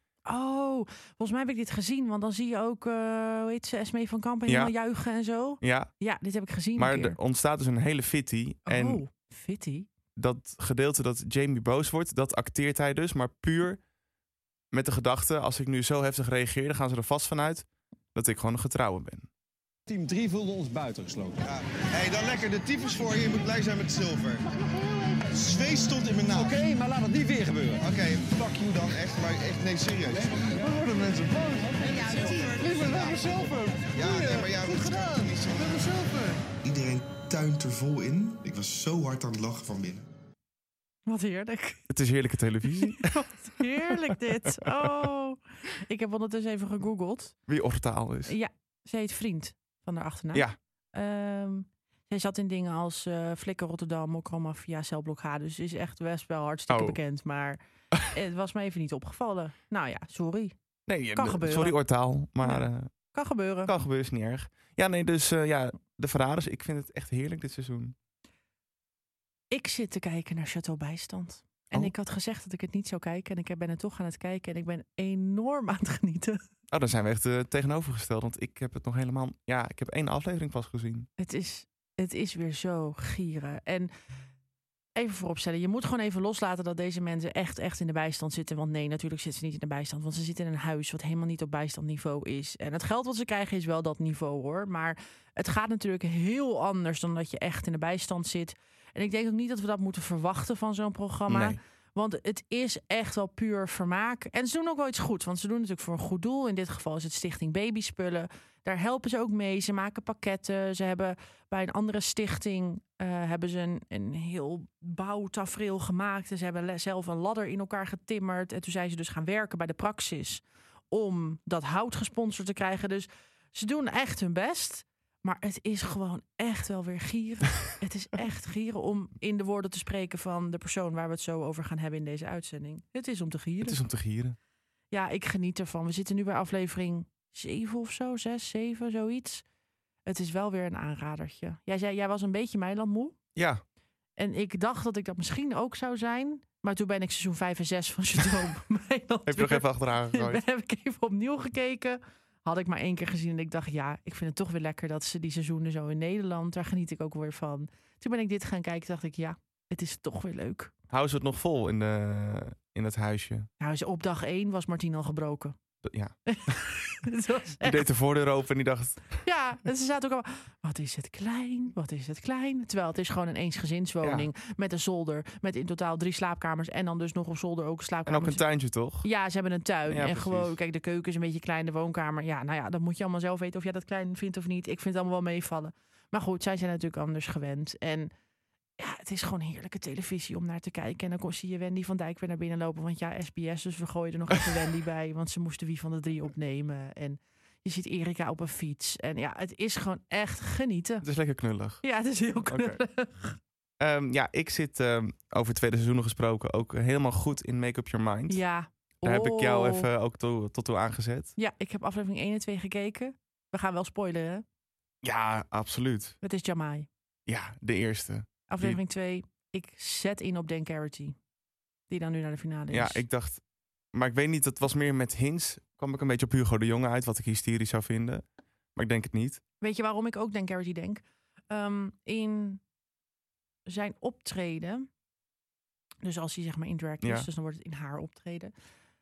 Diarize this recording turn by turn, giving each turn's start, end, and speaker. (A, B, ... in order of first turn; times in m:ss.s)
0:00.3-0:07.2 A
0:04.5-0:04.7 B
0:05.6-0:05.9 B
0:06.8-0:09.0 B
0:08.7-0:09.9 A
0:10.2-0:13.8 B
0:14.7-0:19.3 B
0:19.9-0:21.4 C
0:21.9-0:24.4 D
0:25.3-0:26.6 D
0:26.3-0:27.9 C
0:27.8-0:30.6 D
0:30.1-0:35.3 C
0:32.1-0:33.3 D
0:33.9-0:35.8 D
0:36.6-0:40.0 D
0:41.1-0:41.8 A
0:41.9-0:43.2 B
0:42.8-0:47.4 A
0:43.9-0:44.7 B
0:47.5-0:48.4 B
0:48.3-0:57.6 A
0:56.7-0:57.0 B
0:58.1-1:00.5 A
1:00.9-1:02.9 B
1:01.1-1:01.8 A
1:02.4-1:03.7 A
1:03.7-1:08.0 B
1:09.5-1:16.4 A
1:16.7-1:21.1 B
1:21.2-1:23.9 A
1:25.0-2:13.8 A
1:41.3-1:41.6 B
2:13.6-2:14.4 B
2:14.9-2:19.4 A
2:20.1-2:23.2 A
2:23.4-2:23.6 B
2:24.2-2:40.7 A
2:29.3-2:30.4 B
2:40.9-2:43.5 B
2:43.6-2:45.6 A
2:45.8-2:46.6 B
2:46.3-2:47.9 A
2:47.6-2:49.2 B
2:49.2-2:58.4 A
2:54.0-2:54.3 B
2:58.1-2:59.1 B
2:59.0-3:08.1 A
2:59.9-3:00.6 B
3:08.8-3:21.0 A
3:21.0-3:21.8 B
3:21.8-3:23.4 A
3:22.5-3:22.8 B
3:23.8-3:28.4 B
3:28.3-3:29.9 A
3:29.0-3:31.3 B
3:31.4-3:34.4 A
3:35.0-3:36.2 B
3:36.2-3:36.9 A
3:37.3-3:38.8 B
3:38.5-3:41.2 A
3:41.9-3:43.0 A
3:42.7-3:43.4 B
3:43.9-3:48.2 B
3:48.8-3:49.4 B
3:49.6-3:52.6 A
3:53.7-3:54.9 A
3:56.0-3:58.5 A
3:57.0-3:57.3 B